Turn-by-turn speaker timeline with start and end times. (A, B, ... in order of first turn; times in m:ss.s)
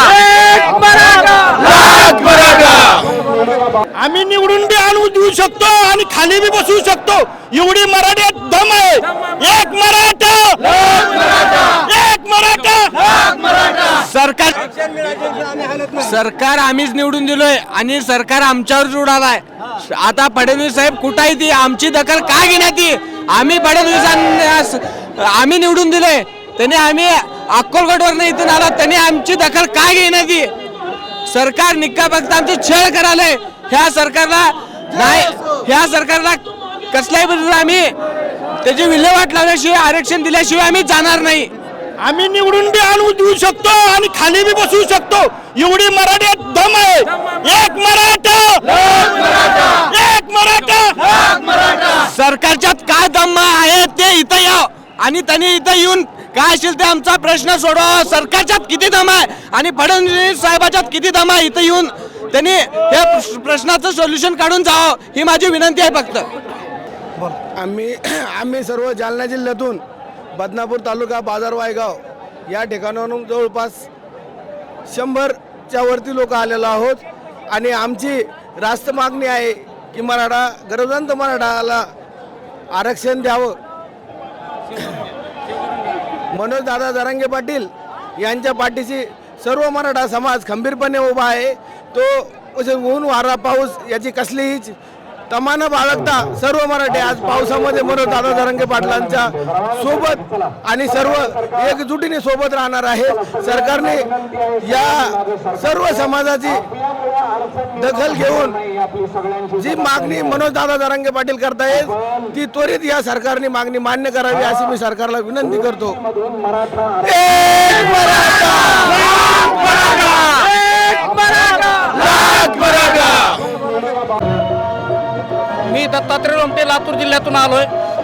0:00.6-0:01.5 A
0:04.0-0:12.9 A
0:06.5-0:07.0 B
0:08.0-0:08.3 B
0:09.6-0:10.2 B
0:12.2-0:12.6 B
0:13.8-0:30.5 C
0:31.3-0:38.0 C
0:38.6-0:41.5 C
0:42.0-0:50.9 A
0:51.8-1:06.3 C
1:07.2-1:09.8 D
1:10.4-1:12.0 D
1:12.5-1:13.9 D
1:14.9-1:21.9 D
1:22.7-1:23.6 D
1:26.3-1:34.7 D
1:35.3-1:44.1 D
1:44.6-1:46.7 D
1:47.8-1:48.6 D
1:49.6-1:56.0 D
1:57.0-2:00.1 D
2:02.1-2:03.2 D
2:05.7-2:07.7 B